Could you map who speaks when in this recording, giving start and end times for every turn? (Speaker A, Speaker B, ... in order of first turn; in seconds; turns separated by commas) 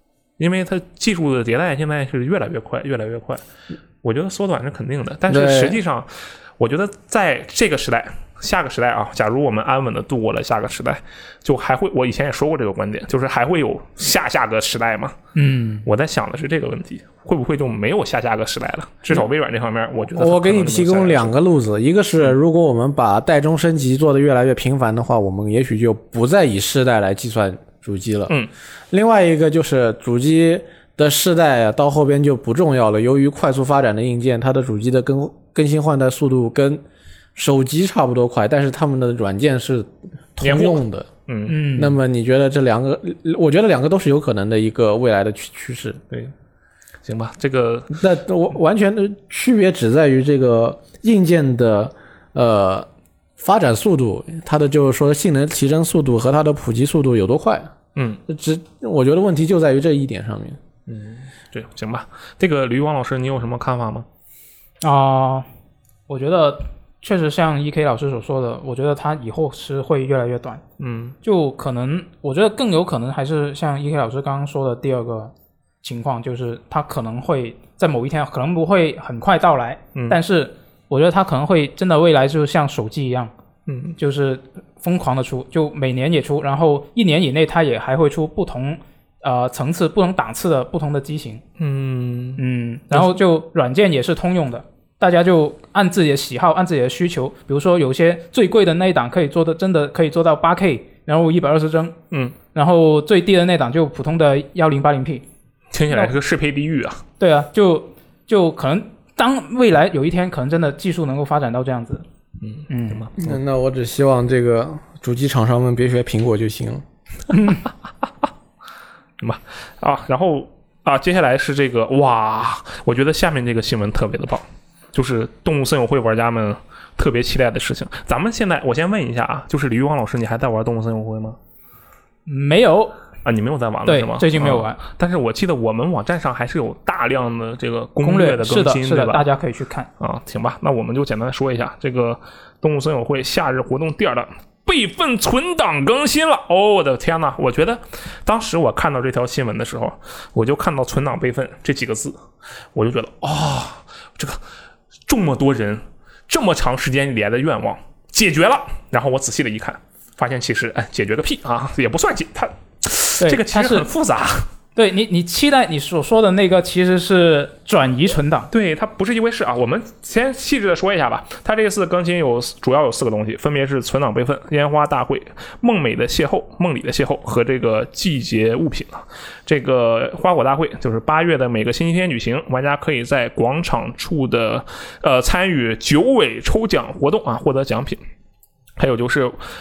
Speaker A: 0.4-3.4, Speaker A: 4.0-15.2, Speaker B: 5.3-5.8, Speaker C: 15.3-15.9, Speaker A: 15.8-21.3, Speaker B: 20.1-28.3, Speaker B: 28.9-36.8, Speaker B: 37.4-41.1, Speaker A: 40.4-41.6, Speaker C: 41.5-42.0, Speaker B: 41.8-46.0, Speaker A: 47.0-48.0, Speaker B: 47.9-52.9, Speaker B: 53.4-57.7, Speaker B: 58.3-60.6, Speaker A: 60.9-64.1, Speaker C: 64.8-65.5, Speaker C: 66.1-70.6, Speaker A: 70.8-71.2, Speaker C: 71.2-83.3, Speaker A: 83.7-84.0, Speaker C: 84.0-91.4, Speaker A: 91.6-93.1, Speaker C: 92.4-102.0, Speaker C: 102.5-105.2, Speaker A: 105.7-107.0, Speaker C: 107.2-112.0, Speaker A: 112.4-113.4, Speaker C: 112.7-113.1, Speaker B: 113.2-116.8, Speaker A: 119.2-131.4, Speaker C: 132.3-132.9, Speaker A: 133.2-139.2, Speaker C: 133.9-134.8, Speaker C: 138.0-139.9, Speaker A: 140.0-152.2, Speaker A: 152.7-154.4, Speaker A: 155.1-164.5, Speaker C: 163.2-163.9, Speaker C: 164.8-168.5, Speaker A: 168.5-188.0, Speaker A: 188.8-189.4